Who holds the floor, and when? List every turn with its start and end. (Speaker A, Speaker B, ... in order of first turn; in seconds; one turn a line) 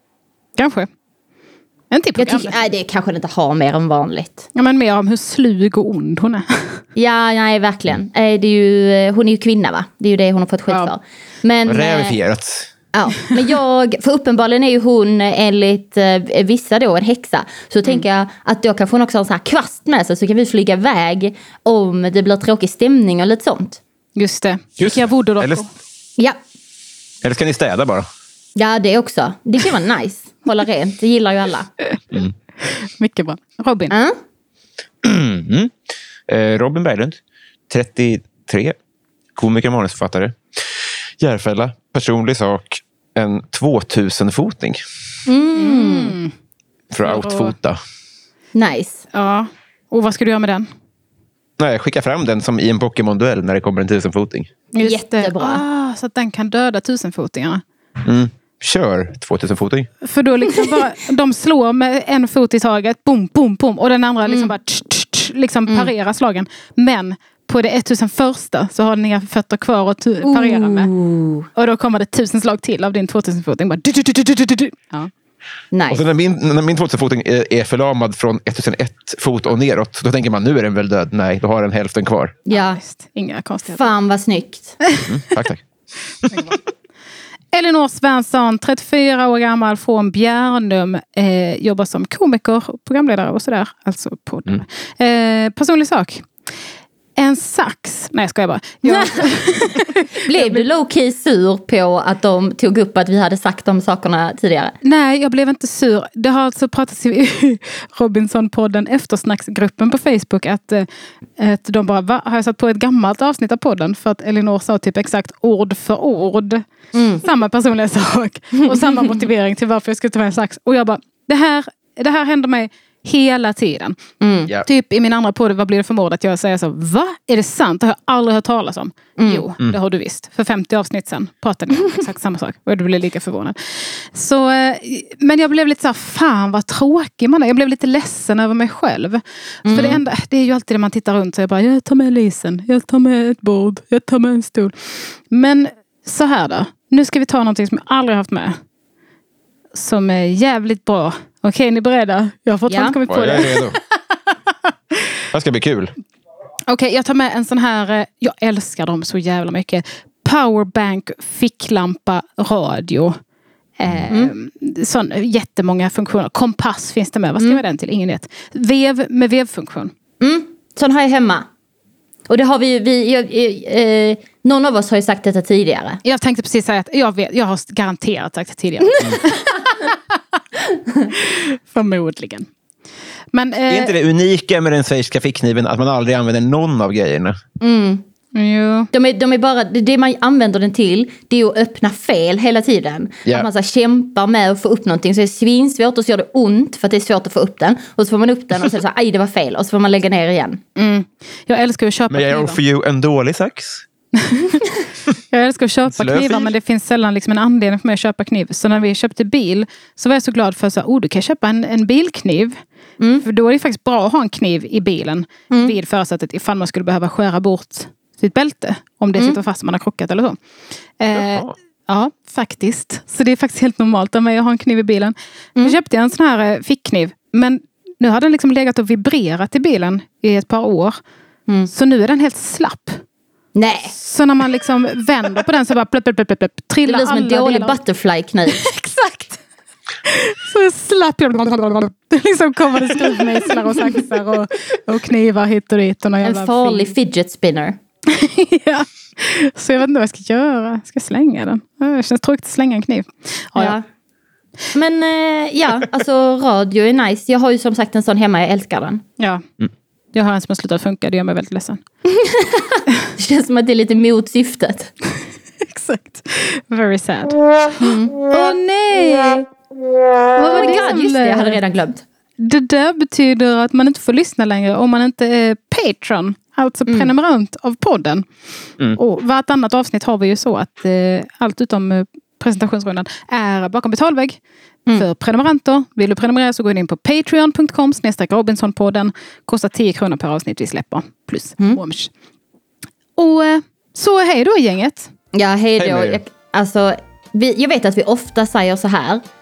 Speaker A: 0.6-0.9
Speaker A: 1.9-2.6
Speaker B: 2.2-4.5
Speaker A: 4.5-6.8
Speaker B: 7.0-12.2
Speaker C: 11.7-12.7
Speaker B: 12.9-23.8
Speaker A: 24.2-25.7
Speaker C: 24.8-25.6
Speaker C: 27.2-28.1
Speaker B: 28.6-31.7
Speaker A: 32.6-33.9
Speaker B: 33.9-34.2
Speaker C: 35.0-35.7
Speaker C: 36.3-38.8
Speaker C: 39.4-40.4
Speaker C: 41.2-44.8
Speaker B: 45.3-46.2
Speaker A: 45.6-46.3
Speaker C: 46.9-47.8
Speaker A: 47.0-47.6
Speaker B: 48.5-49.0
Speaker A: 49.1-50.7
Speaker C: 51.6-54.5
Speaker A: 54.7-57.6
Speaker B: 54.8-55.6
Speaker C: 58.0-59.9
Speaker A: 60.0-70.9
Speaker B: 64.3-64.5
Speaker B: 70.2-71.5
Speaker A: 71.5-75.1
Speaker B: 75.7-76.0
Speaker C: 75.9-82.3
Speaker A: 82.5-83.9
Speaker B: 82.5-82.8
Speaker B: 83.7-84.8
Speaker C: 85.1-85.6
Speaker A: 86.3-86.6
Speaker A: 87.5-96.3
Speaker A: 97.2-100.7
Speaker B: 98.9-99.3
Speaker B: 100.2-104.8
Speaker A: 104.8-110.9
Speaker A: 111.4-148.6
Speaker B: 116.9-117.2
Speaker B: 124.2-124.5
Speaker B: 129.2-129.5
Speaker B: 139.7-140.0
Speaker A: 149.7-154.5
Speaker B: 152.7-153.0
Speaker C: 153.1-153.8
Speaker C: 155.3-155.9
Speaker A: 156.7-163.1
Speaker A: 163.8-169.9
Speaker B: 164.1-164.3
Speaker B: 170.2-171.4
Speaker B: 172.3-176.0
Speaker A: 176.0-180.2
Speaker A: 181.1-182.5
Speaker A: 183.3-183.9
Speaker C: 183.7-187.4
Speaker B: 187.6-188.0
Speaker A: 188.3-188.9
Speaker B: 188.9-200.6
Speaker A: 200.8-202.6
Speaker C: 202.1-203.9
Speaker A: 204.2-212.6
Speaker C: 205.9-206.5
Speaker B: 213.0-213.3
Speaker A: 213.2-220.4
Speaker A: 221.0-231.0
Speaker C: 221.1-221.5
Speaker A: 231.7-233.0
Speaker B: 233.6-233.9
Speaker A: 233.9-237.8
Speaker B: 236.9-238.6
Speaker A: 238.5-239.4
Speaker A: 240.0-246.9
Speaker B: 246.2-247.8
Speaker A: 248.1-253.8
Speaker B: 253.6-253.8
Speaker B: 254.7-259.0
Speaker A: 259.2-261.8
Speaker B: 262.1-264.9
Speaker A: 265.6-269.5
Speaker B: 267.8-268.2
Speaker A: 270.4-271.6
Speaker B: 270.5-272.0
Speaker A: 272.4-278.3
Speaker A: 278.8-292.1
Speaker A: 293.2-295.1
Speaker B: 295.3-299.2
Speaker C: 295.8-296.2